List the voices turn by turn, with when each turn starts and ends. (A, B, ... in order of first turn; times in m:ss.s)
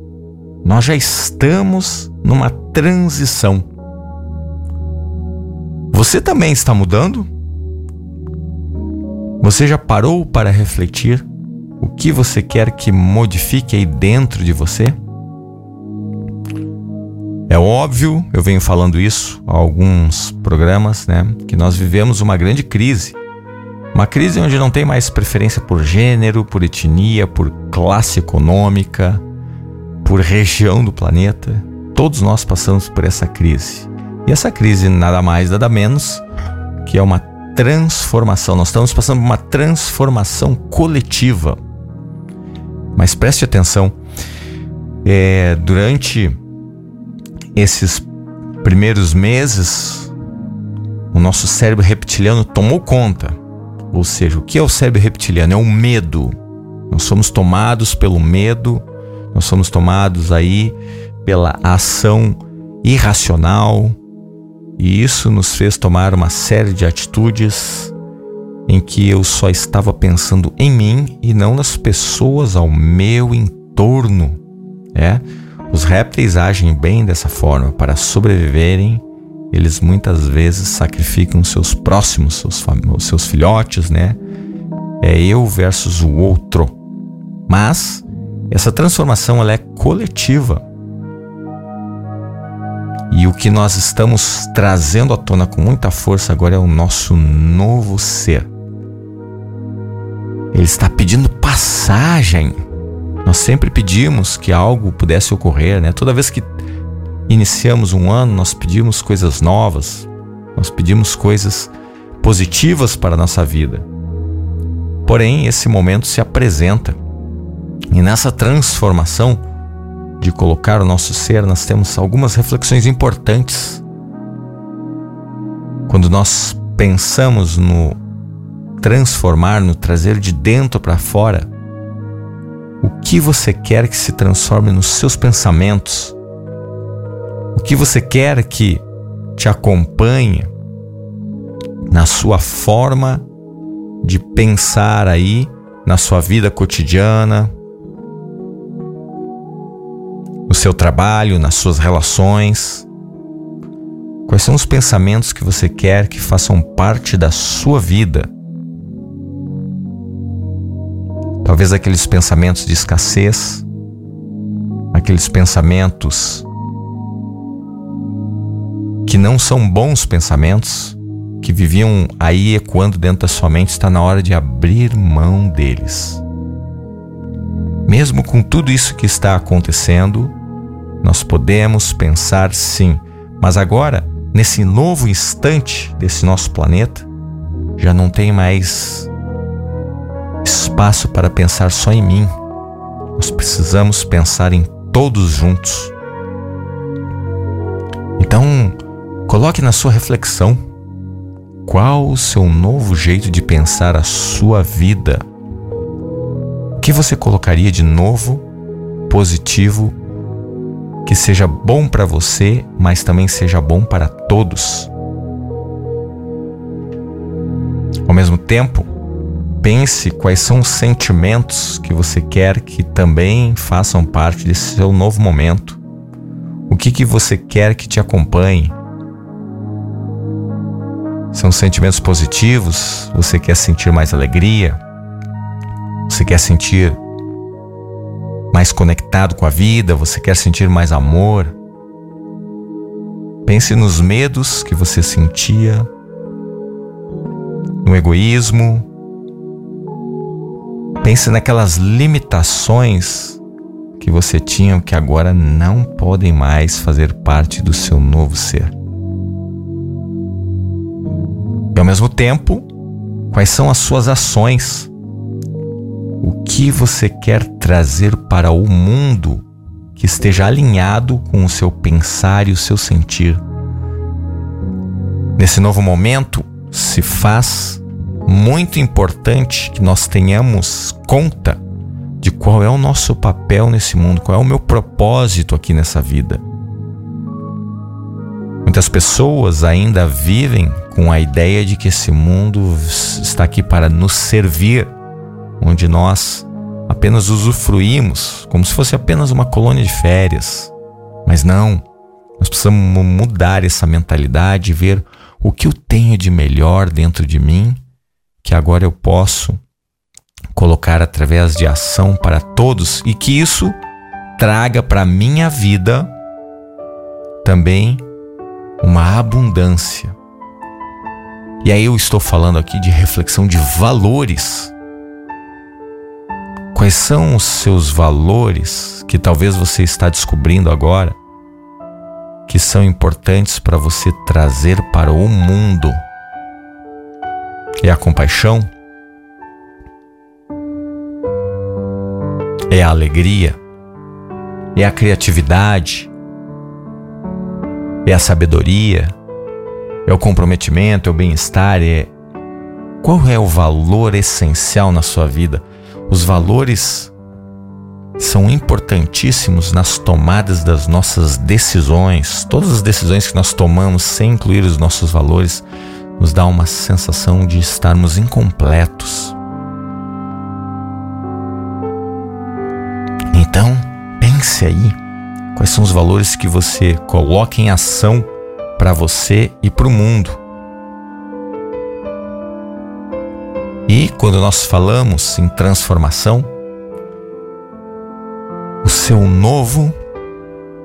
0:00.6-0:03.7 A
0:05.9-0:07.3 A
0:09.4-0:11.3 A
0:11.8-0:15.0 A
0:17.5-0:23.2 A
0:23.9-0:29.2 A
0:30.0-0:36.2 A
0:36.8-0:41.6 A
0:43.0-0:44.0 A
0:45.0-0:46.4 A
0:47.6-0:48.1 A
0:48.6-0:50.1 A
0:51.1-0:53.4 A
0:53.9-0:56.3 A
0:56.9-1:04.0 A
1:04.8-1:07.9 A
1:08.7-1:14.4 A
1:14.9-1:24.2 A
1:25.0-1:26.8 A
1:27.5-1:30.6 A
1:33.1-1:38.5 A
1:40.5-1:42.6 A
1:43.2-1:46.5 A
1:47.3-1:53.9 A
1:55.0-1:57.0 A
1:57.9-1:59.4 A
2:00.2-2:03.8 A
2:05.9-2:08.0 A
2:08.8-2:11.5 A
2:12.8-2:16.2 A
2:17.5-2:18.8 A
2:19.4-2:20.5 A
2:21.9-2:23.3 A
2:24.0-2:27.5 A
2:30.5-2:32.9 A
2:34.3-2:38.3 A
2:41.4-2:43.7 A
2:44.9-2:46.5 A
2:49.1-2:56.2 A
2:57.9-3:00.4 A
3:01.0-3:07.1 A
3:07.8-3:09.1 A
3:10.4-3:12.3 A
3:13.2-3:15.9 A
3:18.2-3:20.6 A
3:21.6-3:25.2 A
3:26.8-3:28.5 A
3:29.1-3:30.0 A
3:31.0-3:34.9 A
3:38.1-3:38.9 A
3:39.6-3:45.8 A
3:46.7-3:48.8 A
3:51.3-3:54.8 A
3:56.1-3:57.0 A
3:58.5-4:01.6 A
4:03.4-4:05.9 A
4:07.8-4:08.9 A
4:11.0-4:13.4 A
4:14.0-4:18.8 A
4:21.7-4:22.7 A
4:23.3-4:24.9 A
4:26.2-4:29.4 A
4:30.0-4:33.4 A
4:35.4-4:41.6 A
4:42.2-4:46.4 A
4:48.6-4:55.0 A
4:55.6-5:00.7 A
5:01.2-5:01.8 A
5:02.4-5:07.8 A
5:08.4-5:09.6 A
5:10.5-5:13.8 A
5:14.4-5:16.1 A
5:17.4-5:18.0 A
5:18.8-5:20.2 A
5:21.6-5:24.7 A
5:26.7-5:31.2 A
5:32.5-5:36.0 A
5:37.8-5:38.7 A
5:42.7-5:43.6 A
5:44.8-5:46.1 A
5:48.0-5:49.2 A
5:50.1-5:52.1 A
5:53.0-5:57.1 A
5:58.2-6:05.6 A
6:06.2-6:09.4 A
6:13.3-6:15.0 A
6:15.5-6:20.4 A
6:23.9-6:26.5 A
6:28.8-6:30.0 A